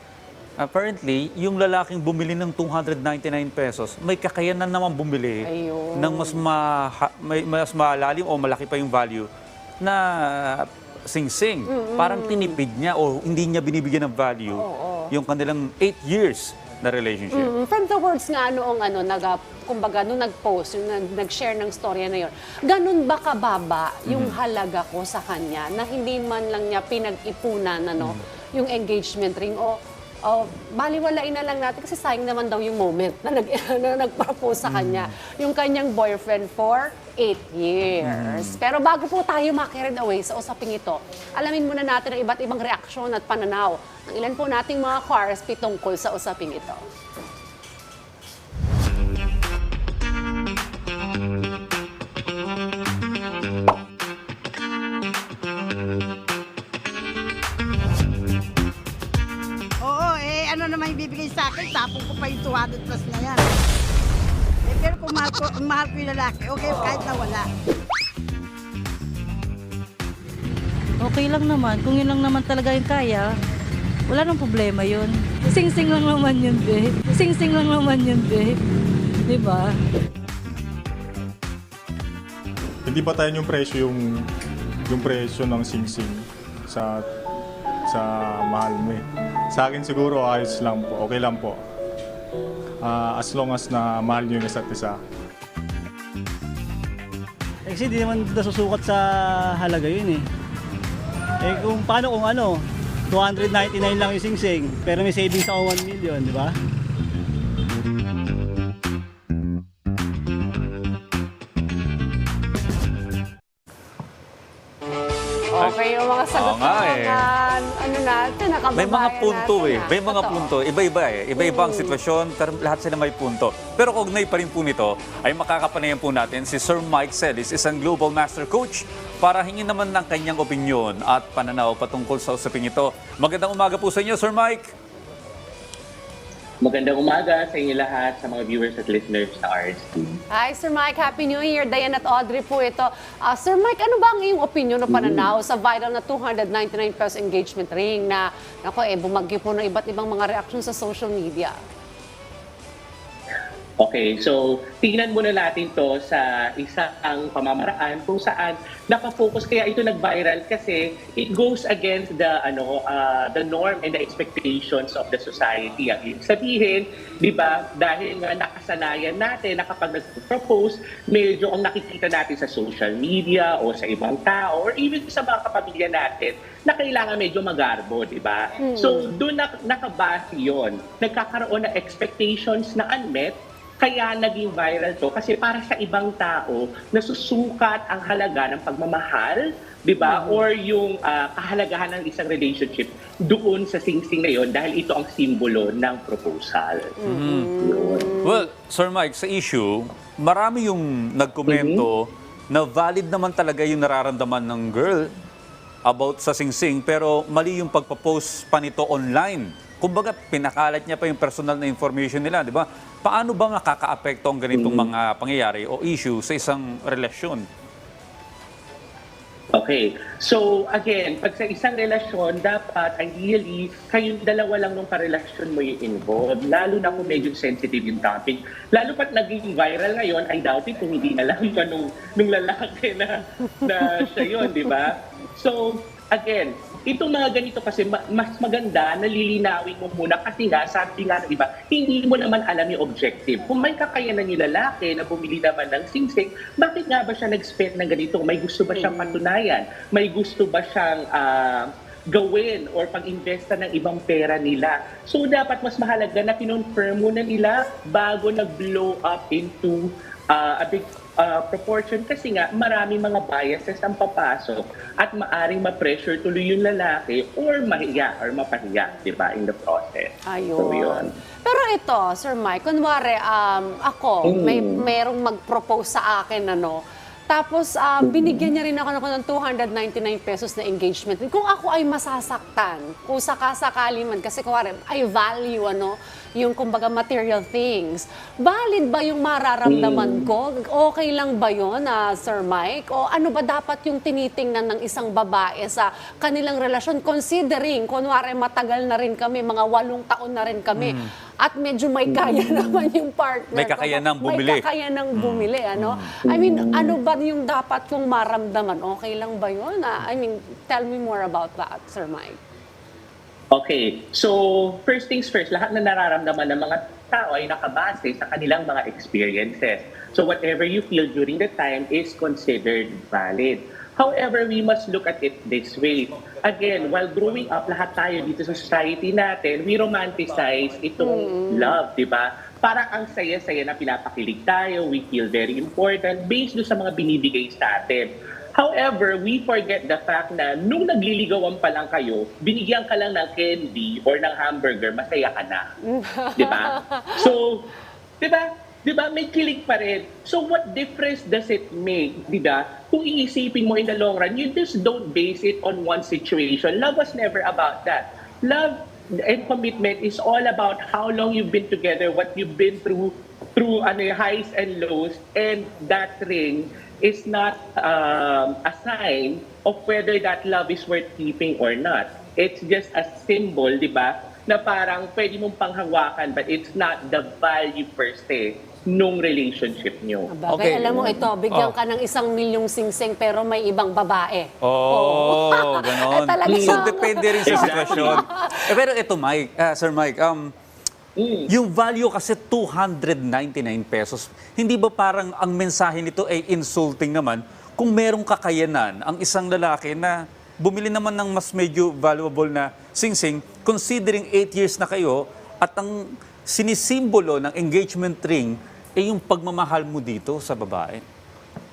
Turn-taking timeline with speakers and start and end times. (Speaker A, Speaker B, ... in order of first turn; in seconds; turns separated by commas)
Speaker A: 0.6-9.3, Speaker B: 5.4-6.4, Speaker A: 9.8-17.5, Speaker B: 11.7-12.6, Speaker B: 14.5-15.1, Speaker B: 17.3-46.8, Speaker A: 24.1-24.4, Speaker A: 34.6-35.1, Speaker A: 38.0-38.6, Speaker C: 59.8-63.4, Speaker C: 64.7-67.4, Speaker D: 71.0-73.3, Speaker D: 74.1-78.6, Speaker D: 79.3-79.8, Speaker E: 82.8-84.2, Speaker E: 84.9-87.0, Speaker E: 87.9-91.6, Speaker E: 92.8-95.0, Speaker F: 97.7-100.3, Speaker F: 101.4-106.6, Speaker B: 115.5-120.5, Speaker A: 116.3-117.3, Speaker A: 118.8-134.7, Speaker B: 121.4-122.0, Speaker G: 136.6-140.2, Speaker B: 140.3-151.5, Speaker G: 144.9-145.3, Speaker G: 153.8-196.9, Speaker B: 178.6-179.1, Speaker B: 190.0-190.4, Speaker B: 197.0-198.5, Speaker A: 197.1-197.5, Speaker G: 197.6-198.1, Speaker A: 198.2-205.1, Speaker G: 201.5-201.8, Speaker A: 205.8-217.4, Speaker G: 214.5-214.9, Speaker G: 219.5-271.1, Speaker B: 226.7-227.3, Speaker B: 233.8-234.8, Speaker B: 248.7-249.2, Speaker B: 270.3-312.4, Speaker G: 274.2-274.8, Speaker G: 278.0-278.5, Speaker G: 289.6-290.3, Speaker A: 300.8-301.1, Speaker G: 302.1-302.9, Speaker A: 303.5-306.1, Speaker G: 306.2-306.9, Speaker G: 313.5-345.6, Speaker B: 331.0-331.8, Speaker B: 345.9-347.3, Speaker G: 346.4-347.7, Speaker G: 348.2-380.3, Speaker B: 380.3-388.8, Speaker A: 380.5-381.7, Speaker A: 384.6-390.5, Speaker G: 386.4-386.9, Speaker G: 387.4-388.2, Speaker G: 391.2-391.5, Speaker A: 391.5-411.0